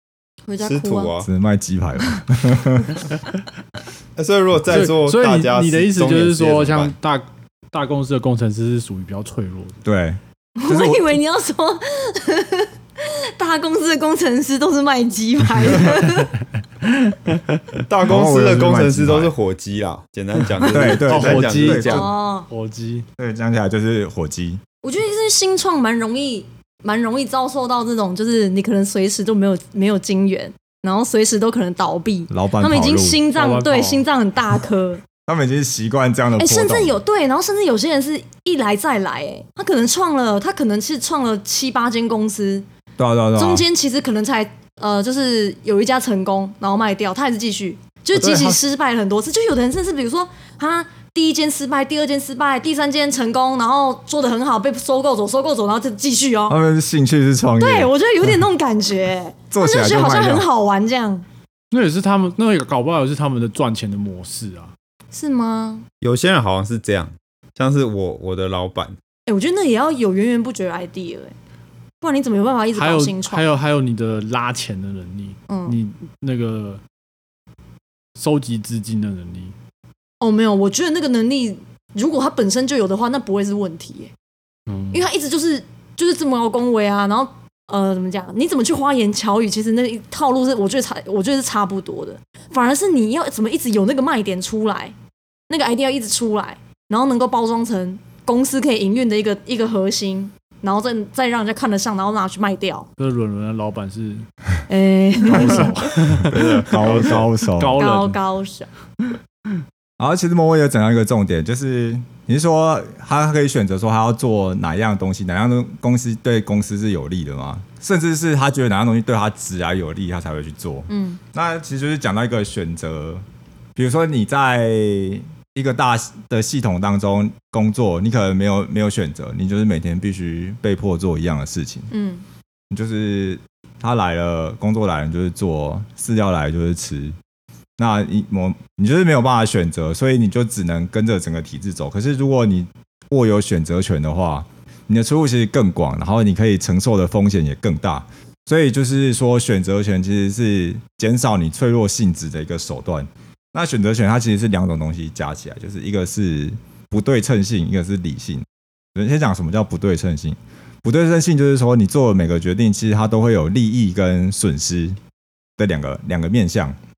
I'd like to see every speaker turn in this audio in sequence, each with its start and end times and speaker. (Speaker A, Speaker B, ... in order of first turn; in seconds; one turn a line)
Speaker A: 0.5-1.1
Speaker B: 0.6-1.3
Speaker C: 1.2-3.0
Speaker B: 4.2-6.9
Speaker D: 4.7-9.8
Speaker C: 9.8-11.1
Speaker A: 10.6-16.3
Speaker B: 17.9-22.1
Speaker C: 18.1-19.3
Speaker C: 20.7-22.1
Speaker D: 20.7-23.1
Speaker A: 21.9-22.5
Speaker C: 23.2-24.6
Speaker A: 24.8-35.0
Speaker C: 32.3-33.2
Speaker D: 33.3-34.0
Speaker C: 35.3-37.0
Speaker A: 36.4-42.6
Speaker C: 43.0-43.6
Speaker A: 43.4-56.6
Speaker C: 48.1-48.6
Speaker C: 56.5-57.9
Speaker A: 57.6-61.2
Speaker C: 59.5-60.5
Speaker D: 61.7-64.7
Speaker A: 65.1-65.9
Speaker B: 66.0-69.0
Speaker A: 69.2-71.3
Speaker A: 72.0-73.5
Speaker D: 72.7-76.8
Speaker A: 75.5-75.8
Speaker D: 78.2-79.5
Speaker A: 80.2-84.1
Speaker D: 84.7-85.1
Speaker A: 84.9-94.9
Speaker A: 95.5-102.9
Speaker D: 103.0-104.3
Speaker A: 104.7-105.7
Speaker D: 105.3-108.2
Speaker B: 106.2-107.2
Speaker C: 106.6-107.8
Speaker A: 107.8-108.7
Speaker C: 110.0-123.2
Speaker A: 120.9-121.2
Speaker C: 123.8-131.9
Speaker A: 131.9-132.2
Speaker C: 132.7-137.2
Speaker C: 137.8-165.0
Speaker C: 165.6-166.8